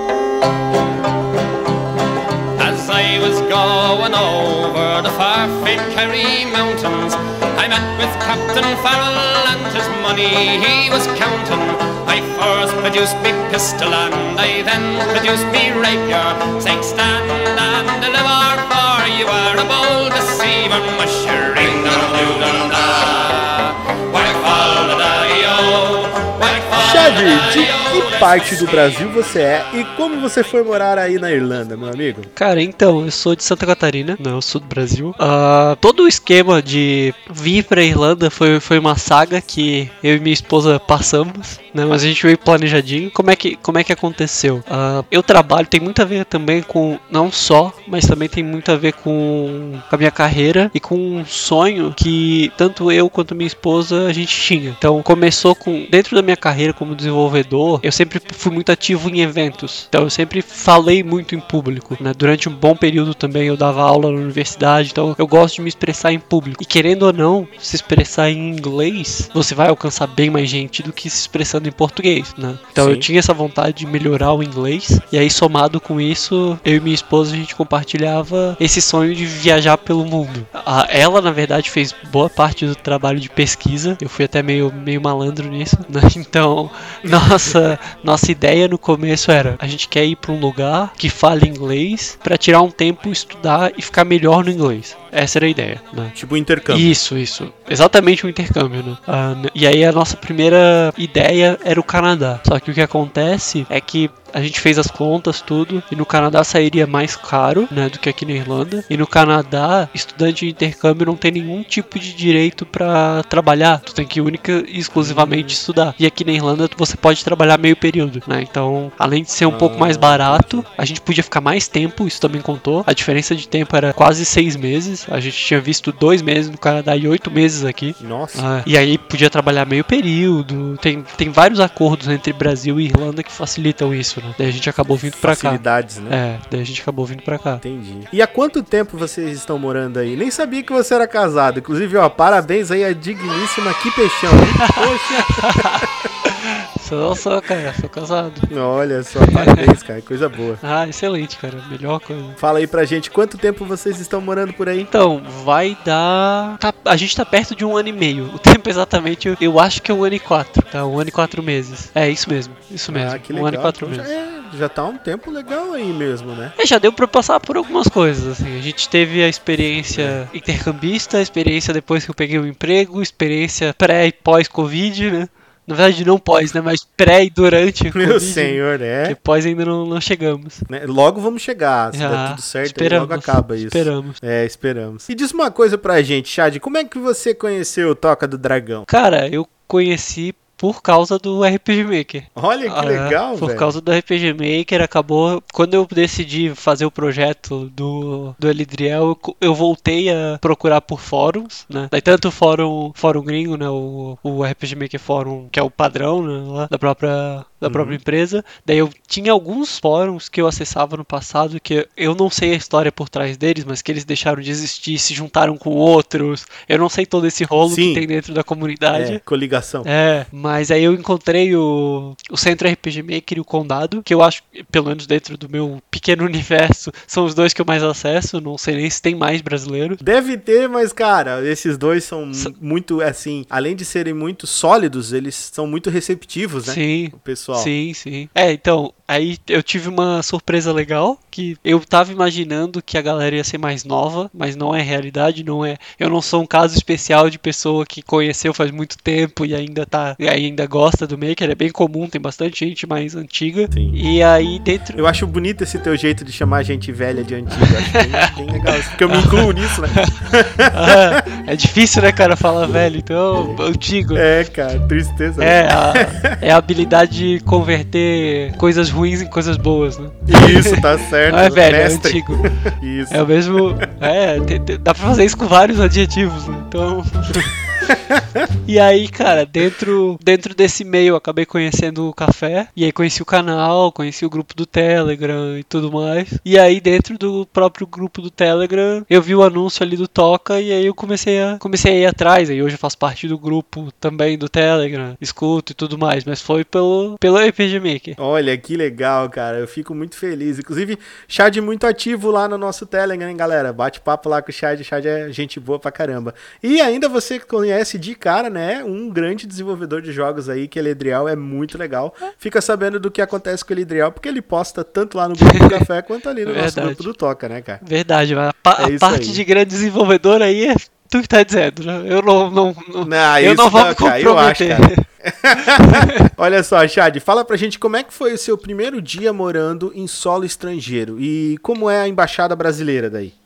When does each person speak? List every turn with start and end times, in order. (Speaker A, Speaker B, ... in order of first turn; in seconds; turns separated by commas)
Speaker A: 2.6-28.1, Speaker B: 26.8-32.3, Speaker C: 32.4-96.1, Speaker B: 72.8-73.0, Speaker B: 87.0-87.5, Speaker B: 96.1-96.9, Speaker C: 96.7-137.6, Speaker B: 114.9-115.5, Speaker B: 119.5-120.7, Speaker B: 128.0-128.4, Speaker B: 135.1-136.2, Speaker B: 137.6-145.8, Speaker C: 144.4-148.5, Speaker B: 148.5-150.6, Speaker C: 149.2-149.7, Speaker C: 150.6-152.4, Speaker B: 152.4-154.9, Speaker C: 154.9-164.1, Speaker B: 162.9-166.5, Speaker C: 166.6-180.7, Speaker B: 169.9-170.2, Speaker B: 177.9-179.2, Speaker B: 180.7-188.8, Speaker C: 181.9-184.2, Speaker C: 188.9-219.2, Speaker B: 192.3-193.7, Speaker B: 207.6-208.0, Speaker B: 217.6-218.1, Speaker B: 218.9-219.9, Speaker C: 219.8-230.0, Speaker B: 230.0-237.7, Speaker C: 236.6-255.0, Speaker B: 253.7-254.0, Speaker B: 254.9-261.2, Speaker C: 257.5-264.2, Speaker B: 263.3-263.6, Speaker B: 264.1-266.4, Speaker C: 265.4-272.4, Speaker B: 270.2-273.2, Speaker C: 273.1-277.5, Speaker B: 277.9-278.4, Speaker C: 278.6-298.2, Speaker B: 298.2-317.8, Speaker C: 315.4-315.8, Speaker C: 316.4-317.1, Speaker C: 317.8-325.0, Speaker B: 318.8-319.4, Speaker B: 323.0-333.3, Speaker C: 325.8-326.1